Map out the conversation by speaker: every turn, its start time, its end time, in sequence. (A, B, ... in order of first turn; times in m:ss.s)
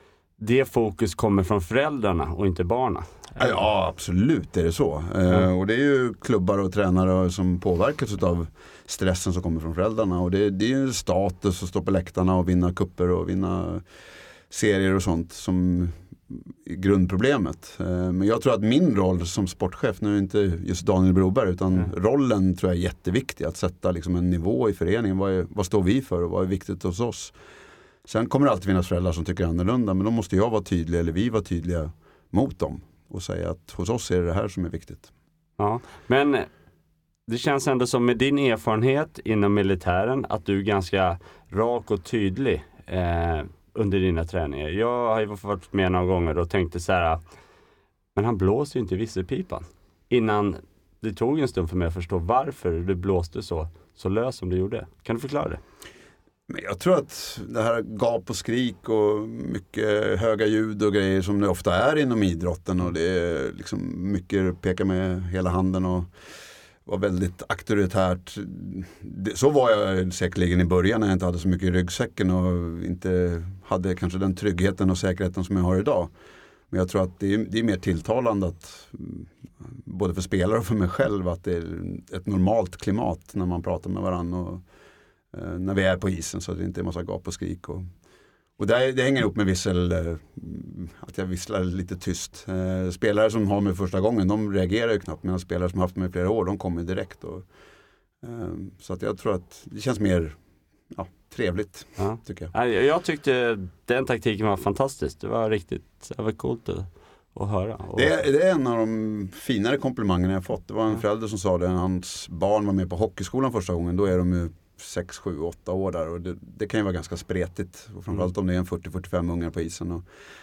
0:00.4-0:03.2 A
0:03.4-0:13.9 B
0:14.5-0:27.3 B
0:28.1-0:35.1 B
0:35.6-0:36.5 A
0:37.3-0:47.2 A
0:48.2-0:55.6 A
0:56.5-1:06.1 B
1:06.9-1:16.1 B
1:16.7-1:24.6 B
1:25.3-1:27.9 B
1:28.6-1:37.5 B
1:38.2-1:40.4 B
1:40.9-1:42.5 B
1:42.0-1:48.2 A
1:48.0-2:00.0 B